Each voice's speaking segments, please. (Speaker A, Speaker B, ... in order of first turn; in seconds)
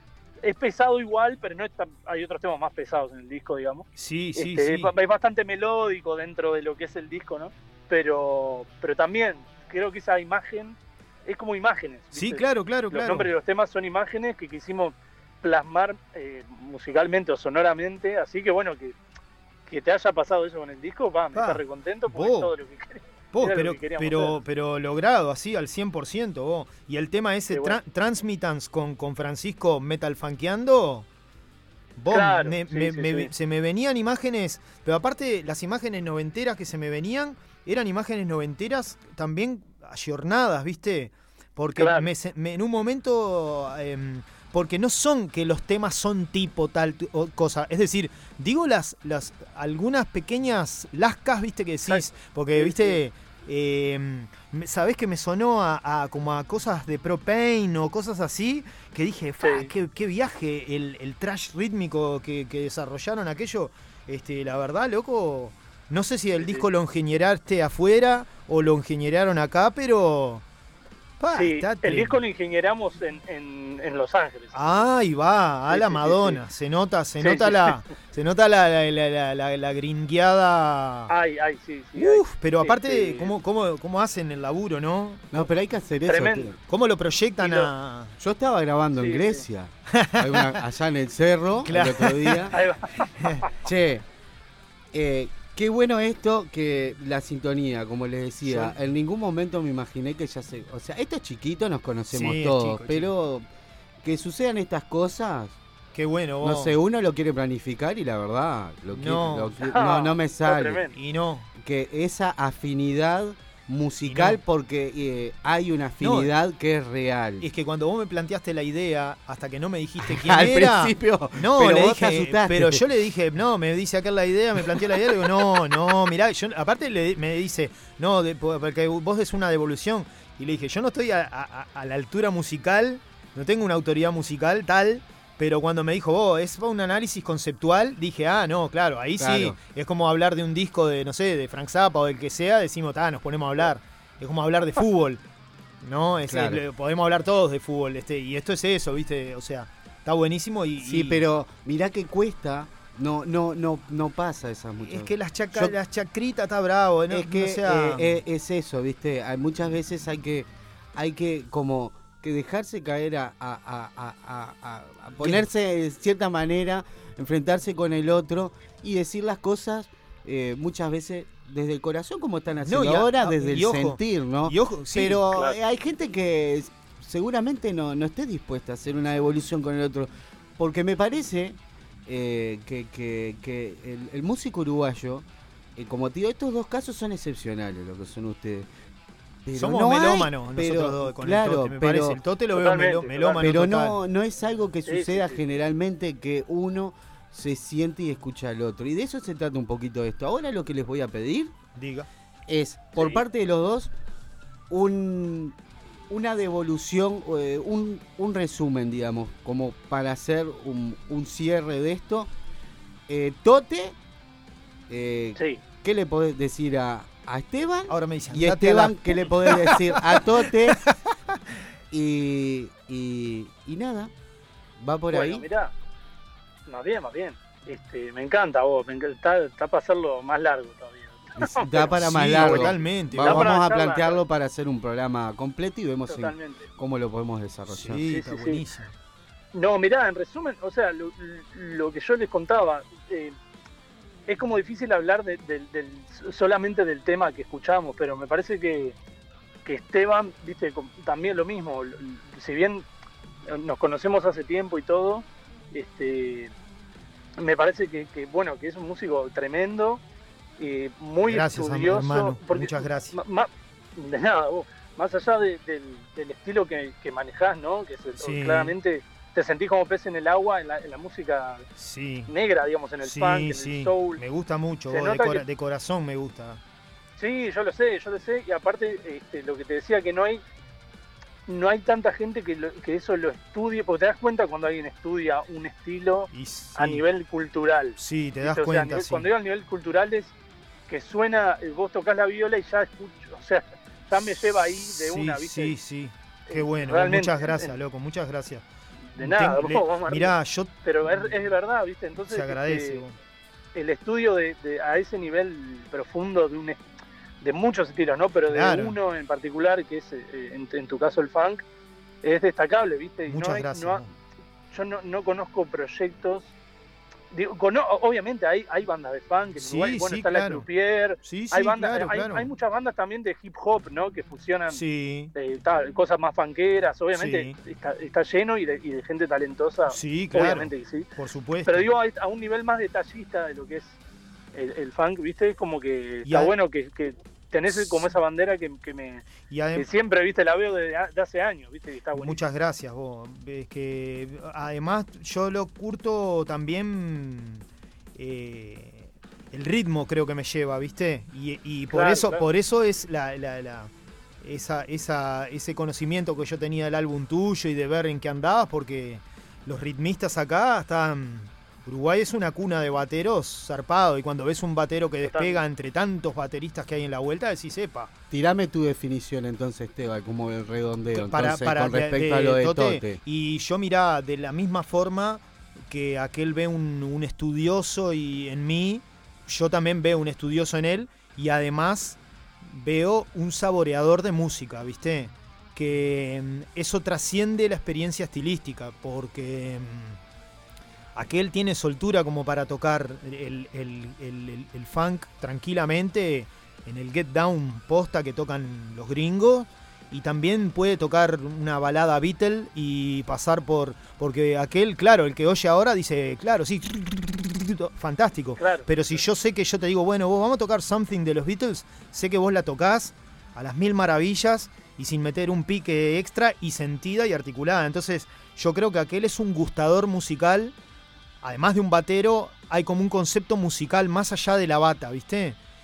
Speaker A: 0.4-18.9, 19.6-24.4, 27.5-27.8, 32.1-33.3, 41.8-42.1, 51.9-53.0, 59.4-59.7, 66.4-66.7, 71.3-74.8, 75.7-76.4, 77.2-77.8, 81.1-83.4, 86.1-86.5, 87.4-87.7, 89.0-89.4, 92.5-93.1, 109.7-110.9, 192.5-193.4, 194.8-195.4, 225.1-225.7, 226.7-232.7, 233.2-234.2, 236.1-236.6, 238.1-238.6, 239.5-243.3, 244.3-248.9, 249.6-252.8, 253.5-256.5, 257.4-260.0, 260.6-271.6, 272.3-274.2, 274.9-275.4, 277.2-280.4, 281.5-290.3, 290.9-295.8, 296.5-297.7, 299.2-303.0, 303.7-306.8, 307.4-311.6, 312.2-314.0, 314.7-316.5, 317.3-324.8, 325.3-331.1, 331.6-333.9, 334.5-339.2, 339.8-342.4, 351.9-352.4, 365.2-365.6, 408.6-408.9
Speaker B: 3.9-4.9, 12.1-13.3, 21.3-22.5, 23.3-31.1, 32.0-70.4, 71.2-72.2, 74.5-81.1, 82.0-85.3, 86.7-88.1, 89.9-90.6, 91.6-92.5, 98.4-98.7, 102.1-103.1, 105.9-106.8, 108.9-109.7, 110.9-111.5, 114.1-114.4, 116.0-116.3, 117.4-145.2, 145.8-151.2, 154.8-158.2, 165.2-165.4, 172.6-175.3, 189.6-194.0, 201.8-202.1, 217.9-220.9, 231.8-233.5, 237.7-238.9, 261.2-263.1, 268.2-268.7, 271.8-272.3, 273.0-276.6, 286.3-287.0, 288.0-289.2, 294.8-298.6, 299.2-301.4, 302.2-303.1, 308.5-308.9, 313.3-314.1, 319.6-320.7, 321.2-322.5, 324.7-325.3, 327.1-327.6, 329.9-331.9, 336.2-336.5, 337.7-338.1, 339.4-339.9, 342.1-347.6, 348.1-353.9, 354.4-368.1, 371.1-390.2, 391.1-420.7, 421.4-425.6
Speaker C: 85.3-86.6, 88.2-92.6, 93.6-94.0, 94.9-103.5, 104.0-105.6, 106.4-110.9, 111.6-117.4, 120.0-122.8, 139.2-139.6, 146.3-146.6, 150.8-155.8, 157.1-185.2, 185.8-188.7, 189.4-192.2, 193.4-201.5, 202.5-203.9, 204.7-205.6, 206.1-212.3, 213.1-213.9, 214.9-220.8, 221.9-224.1, 224.8-225.4, 231.4-238.1, 368.3-373.2